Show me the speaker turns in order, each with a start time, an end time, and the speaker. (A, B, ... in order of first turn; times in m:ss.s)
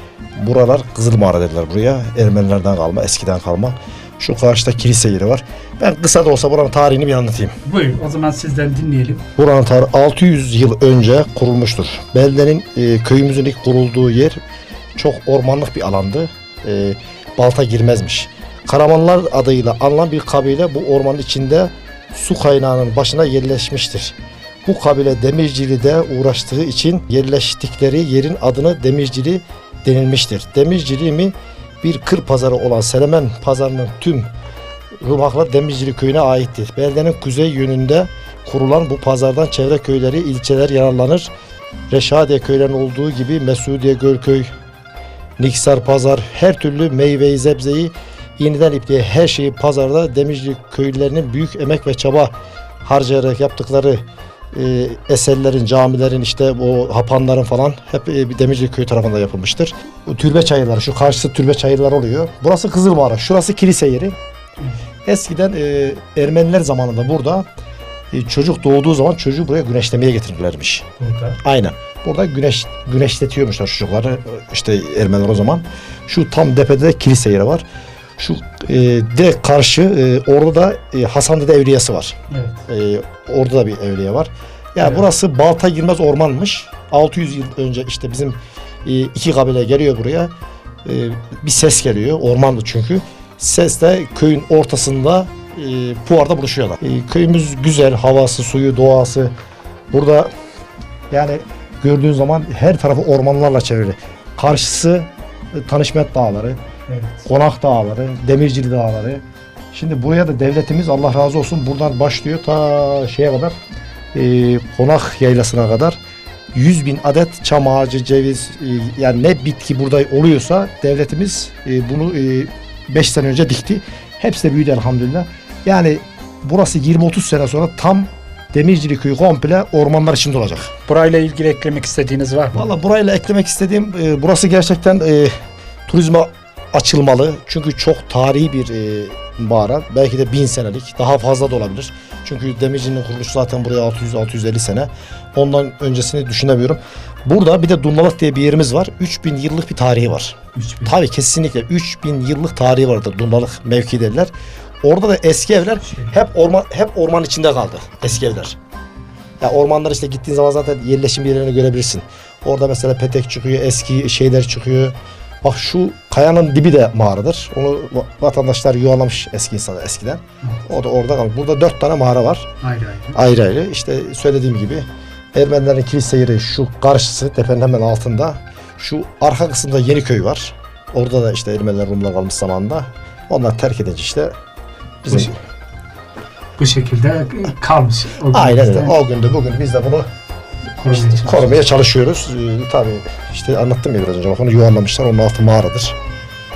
0:00.4-0:07.5 A
0:07.6-0:09.2 B
0:09.4-0:14.4 A
0:15.0-0:34.3 A
0:35.0-0:41.3 A
0:41.9-0:44.5 A
0:45.4-0:52.3 A
0:52.8-1:04.2 A
1:05.1-1:07.5 A
1:08.1-1:10.9 A
1:11.0-1:11.4 B
1:11.4-1:17.6 A
1:18.2-1:22.2 A
1:22.3-1:22.6 B
1:22.7-1:30.3 A
1:30.8-1:39.3 A
1:39.9-1:40.3 A
1:41.1-1:46.6 A
1:46.9-1:47.2 B
1:47.2-1:49.2 A
1:49.7-1:53.6 A
1:54.1-1:56.0 A
1:56.5-2:10.7 A
2:10.9-2:12.7 B
2:12.5-2:15.3 A
2:15.9-2:34.3 A
2:30.5-2:30.9 B
2:34.8-2:38.6 A
2:35.8-2:36.1 B
2:39.4-2:52.5 A
2:52.6-2:53.2 B
2:53.2-3:04.3 A
3:05.0-3:05.4 A
3:05.1-3:05.3 B
3:06.6-3:09.0 B
3:08.3-3:10.1 A
3:10.8-3:11.5 B
3:10.9-3:16.0 A